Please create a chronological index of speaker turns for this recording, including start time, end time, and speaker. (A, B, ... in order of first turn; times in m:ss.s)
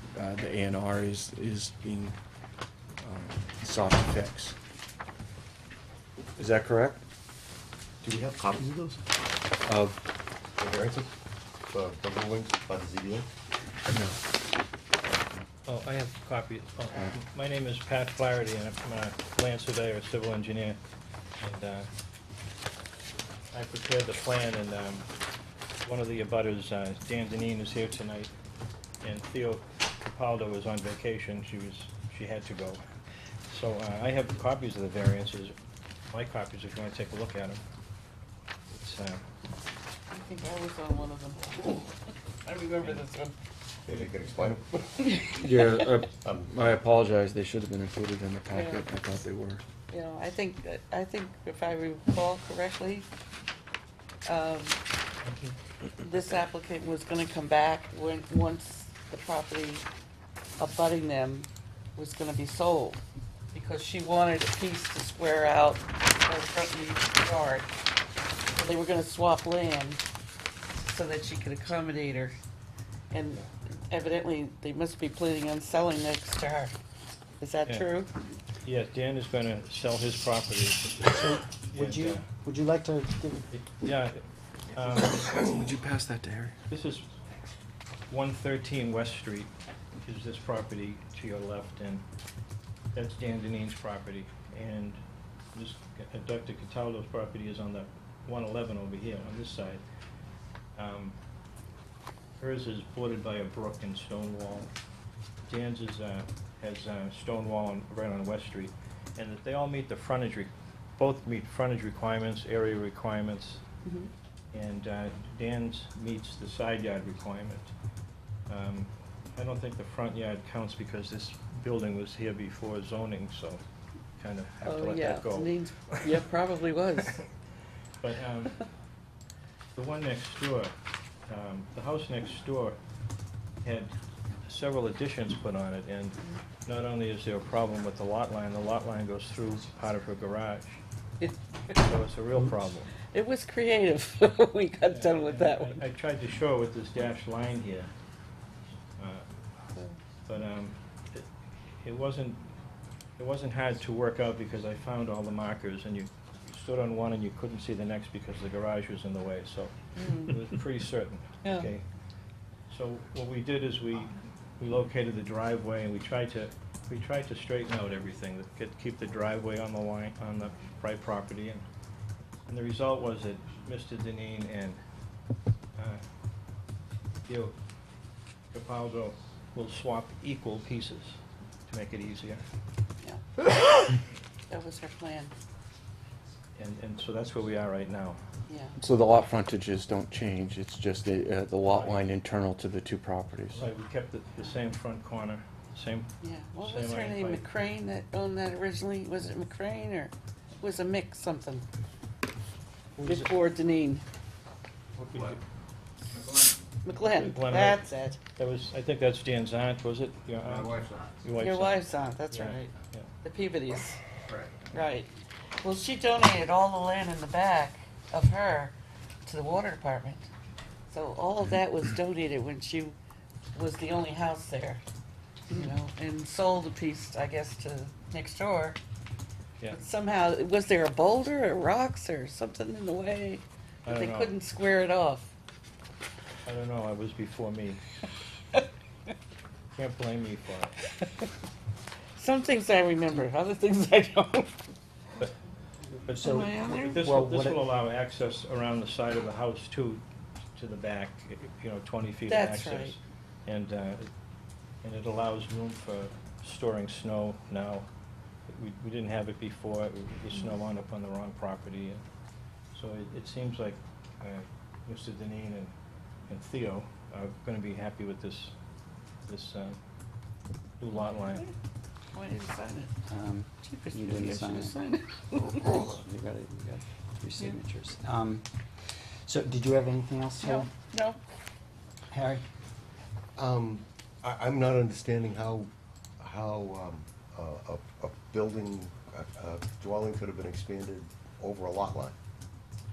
0:00.1-0:02.1 A
0:03.0-0:04.6 A
0:06.4-0:07.0 A
0:08.0-0:09.0 B
0:09.6-0:10.0 A
0:10.6-0:11.1 B
0:11.7-0:13.3 B
0:13.9-0:14.2 A
0:15.6-0:20.8 C
0:21.4-0:21.9 C
0:23.5-0:25.1 C
0:25.8-0:28.3 C
0:29.0-0:32.8 C
0:33.5-0:35.5 C
0:36.1-0:37.6 C
0:38.7-0:39.2 C
0:40.1-0:41.8 D
0:42.4-0:43.3 D
0:43.9-0:45.2 B
0:45.3-0:49.6 A
0:46.2-0:46.5 B
0:48.5-0:48.9 D
0:49.9-0:53.1 D
0:54.2-0:54.8 D
0:55.2-0:55.5 C
0:56.0-0:59.8 D
1:00.6-1:03.0 D
1:03.5-1:07.7 D
1:08.6-1:10.0 D
1:10.8-1:12.4 D
1:13.1-1:16.7 D
1:17.4-1:18.1 D
1:18.6-1:21.1 C
1:21.0-1:23.5 E
1:21.6-1:22.2 C
1:23.5-1:24.2 C
1:24.7-1:25.2 C
1:24.9-1:26.6 A
1:26.7-1:27.0 C
1:28.1-1:32.0 C
1:32.9-1:35.0 C
1:35.5-1:39.8 C
1:40.8-1:41.2 C
1:42.4-1:44.7 C
1:45.4-1:53.6 C
1:53.8-1:54.1 D
1:54.5-1:57.7 C
1:58.5-2:03.6 C
2:04.2-2:06.2 C
2:04.6-2:07.2 D
2:08.0-2:08.6 C
2:09.7-2:10.7 C
2:11.3-2:12.8 C
2:13.6-2:13.9 C
2:14.4-2:20.8 C
2:21.8-2:22.9 C
2:23.1-2:25.8 D
2:24.9-2:27.9 C
2:29.0-2:29.2 C
2:30.2-2:31.3 C
2:31.8-2:32.5 C
2:33.2-2:41.8 C
2:40.0-2:40.3 D
2:41.4-2:41.7 D
2:42.7-2:51.6 C
2:52.5-2:54.8 C
2:55.8-2:56.0 C
2:57.2-2:57.5 C
2:58.5-3:02.4 C
3:04.5-3:05.3 D
3:06.6-3:08.2 C
3:08.5-3:08.8 D
3:08.8-3:13.6 A
3:11.7-3:12.0 C
3:13.5-3:17.4 C
3:16.2-3:21.7 D
3:23.0-3:23.2 C
3:23.0-3:24.0 D
3:25.1-3:25.4 C
3:26.8-3:28.2 D
3:27.0-3:33.1 C
3:31.4-3:32.7 D
3:33.2-3:34.0 D
3:34.7-3:35.1 D
3:35.6-3:38.7 D
3:39.2-3:40.3 D
3:40.9-3:42.9 D
3:43.5-3:44.8 D
3:45.5-3:48.8 D
3:49.7-3:55.3 D
3:53.8-3:54.4 C
3:56.4-3:57.8 C
3:59.7-4:00.8 C
4:02.2-4:04.6 D
4:06.1-4:07.6 E
4:06.1-4:10.0 C
4:06.2-4:07.0 D
4:10.5-4:14.1 C
4:12.3-4:13.0 D
4:14.8-4:17.9 C
4:18.5-4:22.0 C
4:22.7-4:25.7 C
4:26.3-4:28.5 C
4:29.2-4:29.8 C
4:30.8-4:31.5 C
4:32.1-4:32.9 D
4:33.1-4:34.8 E
4:33.6-4:35.8 D
4:35.4-4:38.4 E
4:39.2-4:40.7 E
4:40.4-4:41.2 D
4:42.1-4:42.4 E
4:43.4-4:52.1 B